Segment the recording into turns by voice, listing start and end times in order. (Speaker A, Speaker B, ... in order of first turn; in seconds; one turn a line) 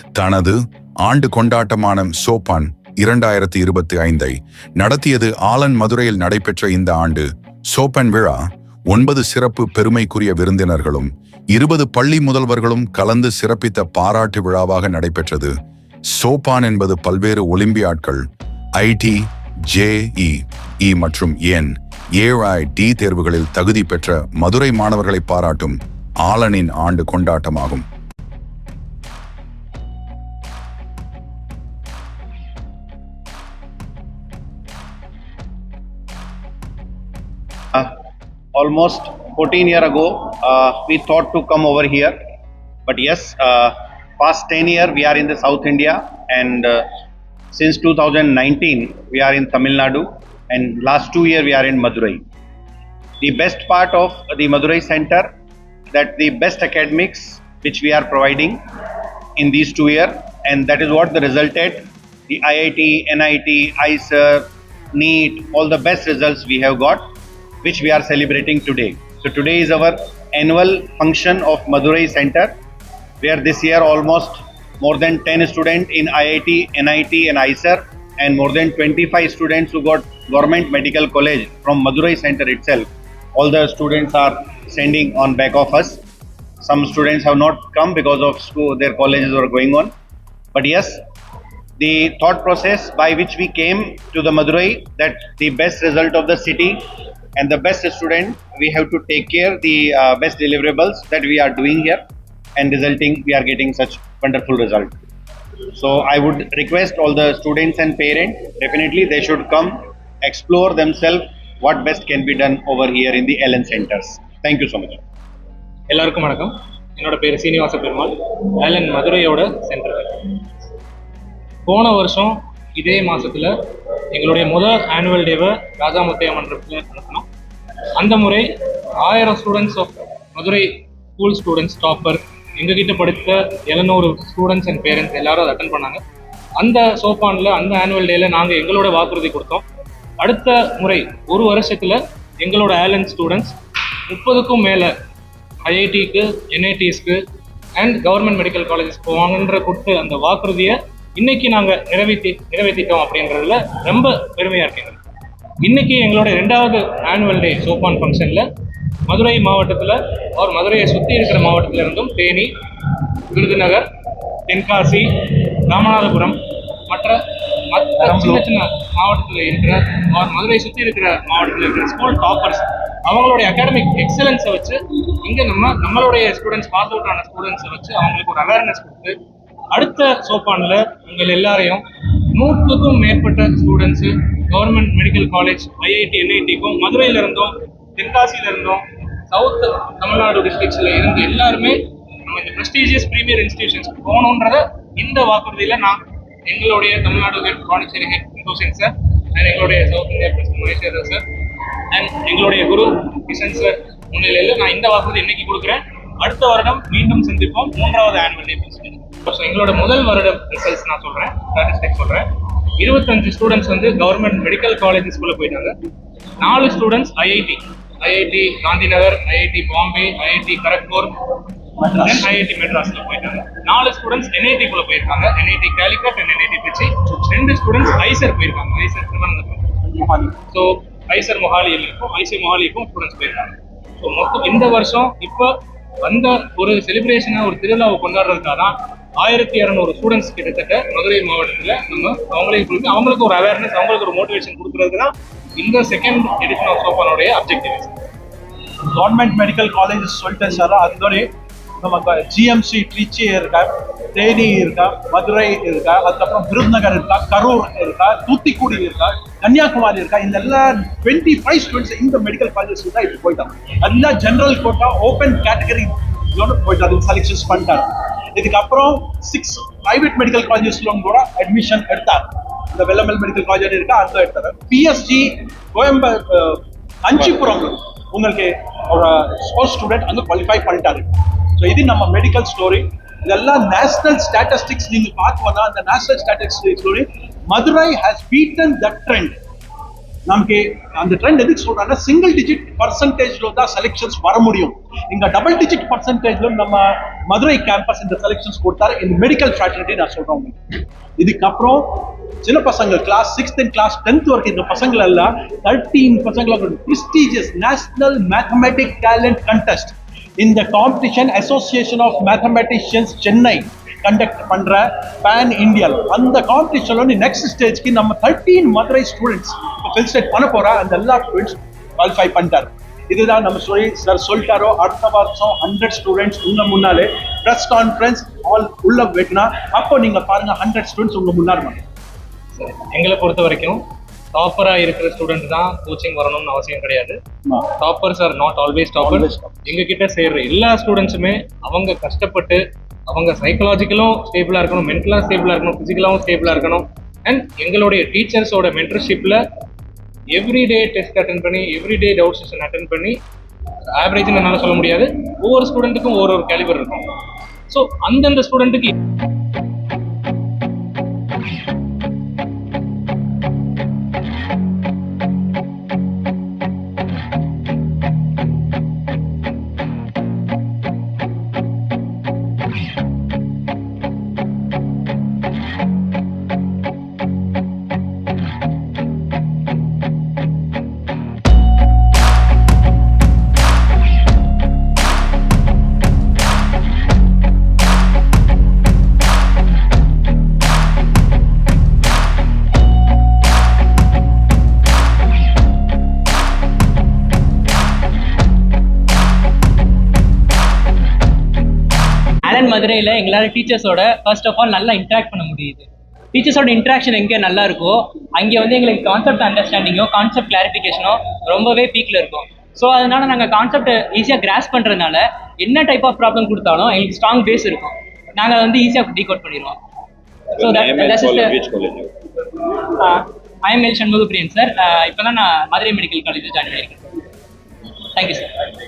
Speaker A: 0.1-15.5
Speaker A: 16.1-18.2
Speaker A: 18.8-27.9
Speaker B: 38.5-42.2
Speaker B: 42.9-46.9
Speaker B: 47.5-52.2
Speaker B: 53.2-55.3
Speaker B: 55.9-58.6
Speaker B: 59.4-67.1
Speaker B: 67.6-72.6
Speaker B: 73.2-86.0
Speaker B: 86.6-89.9
Speaker B: 90.5-91.1
Speaker B: 91.8-102.0
Speaker B: 102.6-105.0
Speaker B: 105.7-115.0
Speaker C: 115.9-120.4
Speaker C: 121.7-123.5
Speaker C: 124.1-127.3
Speaker C: 128.0-136.0
Speaker C: 136.6-139.6
Speaker C: 140.2-143.6
Speaker C: 144.1-144.9
Speaker C: 145.7-147.2
Speaker C: 147.8-155.0
Speaker C: 155.6-158.5
Speaker C: 159.1-162.5
Speaker C: 163.3-163.9
Speaker C: 164.5-167.2
Speaker C: 167.7-179.2
Speaker D: 168.0-168.4
Speaker C: 179.7-201.2
Speaker C: 201.9-215.7
Speaker C: 216.4-221.2
Speaker D: 221.8-222.3
Speaker C: 222.0-229.7
Speaker D: 229.9-230.4
Speaker C: 230.5-248.0
Speaker D: 248.9-251.3
Speaker D: 251.8-289.4
Speaker D: 290.3-300.6
Speaker D: 301.2-331.9
Speaker C: 332.5-337.2
Speaker C: 337.8-349.4
Speaker D: 339.0-339.6
Speaker C: 350.3-353.2
Speaker C: 353.9-357.1
Speaker C: 357.7-358.9
Speaker E: 402.4-419.8
Speaker E: 420.6-421.6
Speaker B: 420.6-422.1
Speaker E: 422.9-427.1
Speaker E: 428.1-428.5